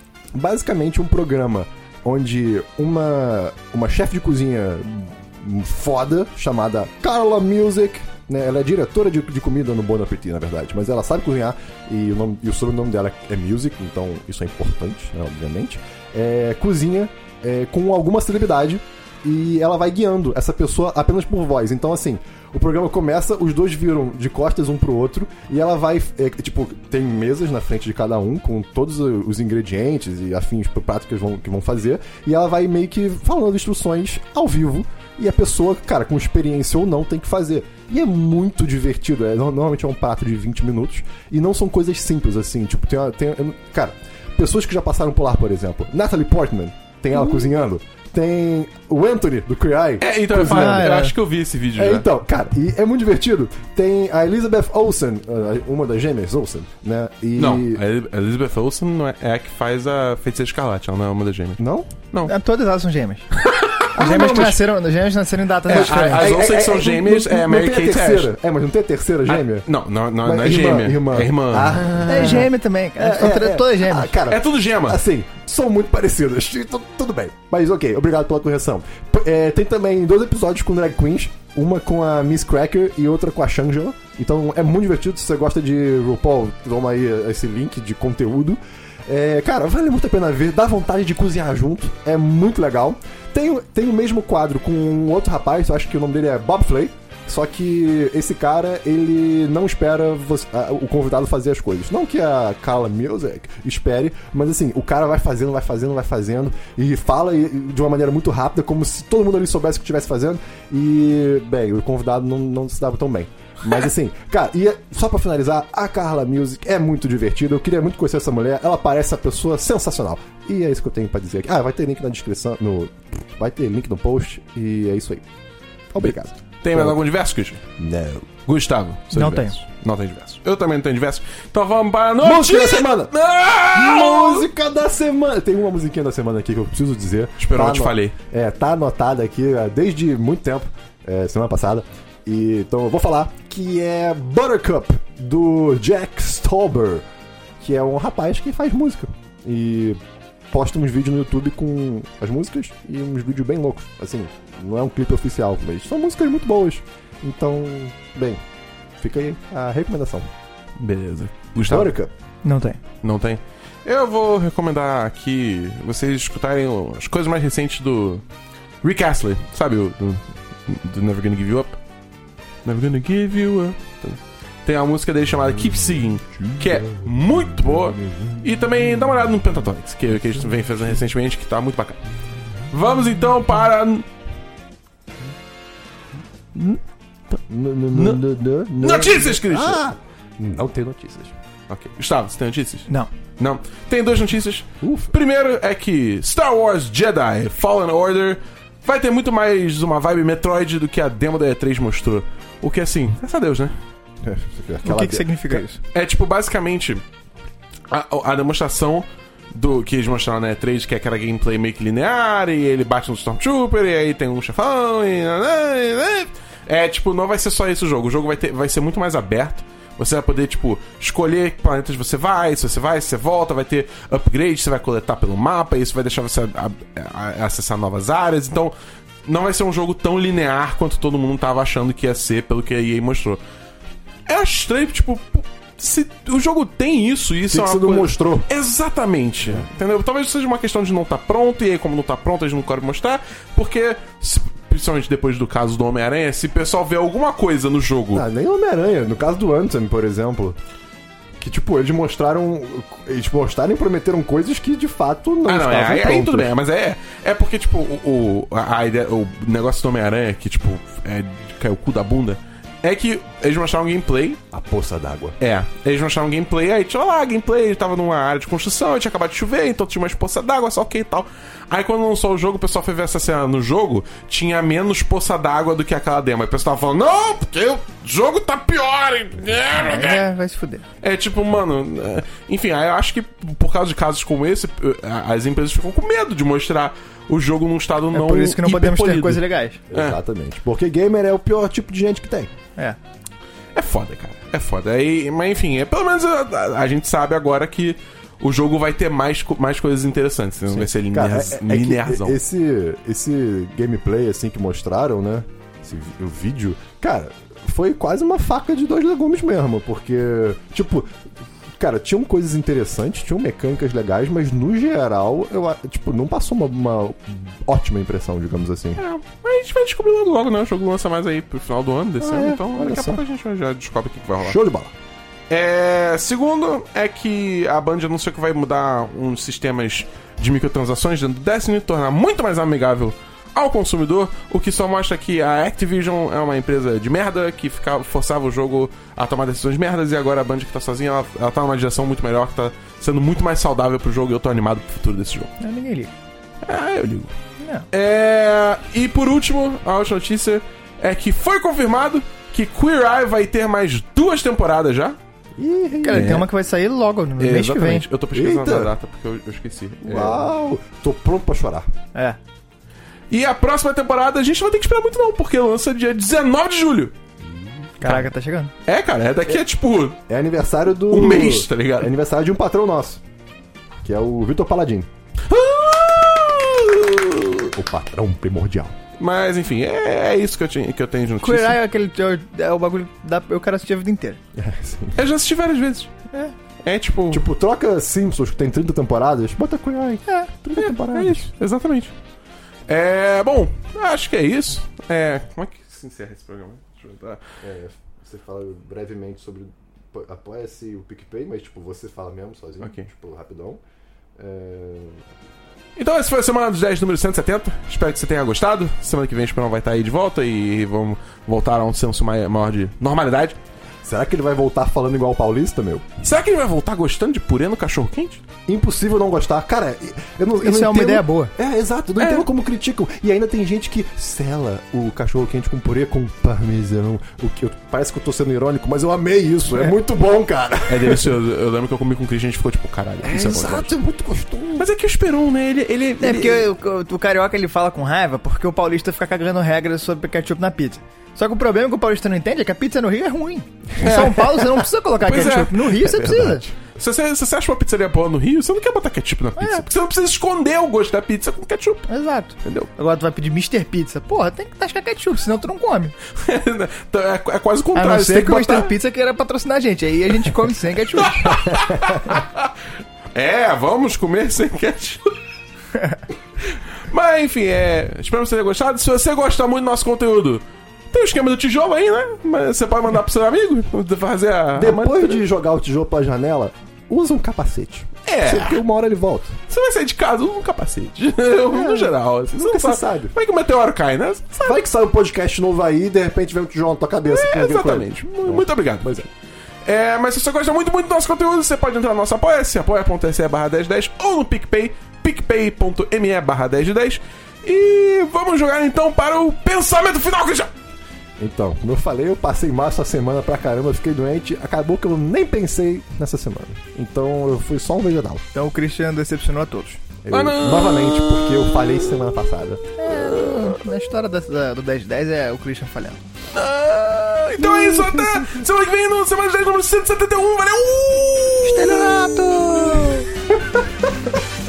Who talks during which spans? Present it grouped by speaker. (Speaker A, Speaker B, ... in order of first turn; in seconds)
Speaker A: 0.3-50.9, 51.8-57.8, 61.6-61.9, 64.0-64.6, 65.7-69.7, 70.2-125.2, 125.9-127.0, 127.8-128.3, 132.2-133.1, 133.7-147.0, 147.6-150.0, 150.5-158.4, 159.0-160.3, 161.7-162.1, 187.5-191.3, 194.8-195.1, 204.2-205.6, 237.5-238.5, 248.1-250.6, 251.4-256.5, 264.5-265.4, 289.9-292.5, 300.7-311.1, 311.8-319.0, 322.2-323.2, 324.4-324.9, 355.6-356.4, 358.3-358.9, 360.1-361.9, 367.4-367.9, 370.3-373.2, 374.0-375.1, 377.7-378.9, 384.5-385.2, 387.3-391.4, 397.6-403.8, 404.4-405.2, 414.0-416.1, 418.7-431.3, 433.2-434.9, 474.7-479.6, 481.8-483.3, 484.6-489.3, 501.4-508.4, 510.2-512.9, 517.6-518.5
Speaker B: 50.0-52.1, 57.4-62.3, 63.3-64.5, 65.7-68.3, 69.2-72.4, 74.3-75.0, 126.1-127.6, 128.4-134.4, 137.4-138.1, 160.8-161.9, 163.0-168.2, 168.8-171.8, 172.6-182.0, 182.7-184.1, 187.9-188.2, 188.8-189.8, 191.7-203.8, 205.9-207.0, 207.9-233.4, 234.3-248.2, 255.5-264.4, 265.4-280.2, 281.0-290.2, 293.7-302.4, 319.0-324.6, 325.5-345.5, 346.6-347.3, 347.9-355.2, 356.1-356.5, 357.4-360.5, 363.3-367.1, 368.0-368.3, 368.9-370.2, 371.1-372.1, 375.5-377.7, 379.2-381.8, 385.1-386.1, 386.8-387.4, 390.8-392.1, 392.9-397.4, 402.8-403.1, 405.9-413.6, 416.2-418.4, 422.2-422.5, 430.9-433.9, 434.8-436.7, 444.0-452.1, 452.6-452.9, 456.3-458.9, 461.1-462.7, 463.3-465.3, 466.7-475.4, 478.2-478.8, 479.7-484.8, 487.2-489.3, 489.8-500.7, 510.3-511.9, 513.1-513.8, 516.5-523.1
Speaker C: 50.3-51.1, 62.2-63.2, 63.9-66.3, 72.0-74.2, 129.1-129.5, 162.4-162.8, 204.8-205.8, 279.7-280.8, 288.1-289.8, 345.6-346.1, 347.6-347.9, 356.0-358.1, 362.1-362.4, 368.0-368.7, 381.4-384.4, 390.3-390.8, 420.6-421.5, 436.2-446.6, 449.6-449.9, 452.1-456.1, 457.9-462.1, 508.5-510.0, 513.0-516.2, 521.6-523.3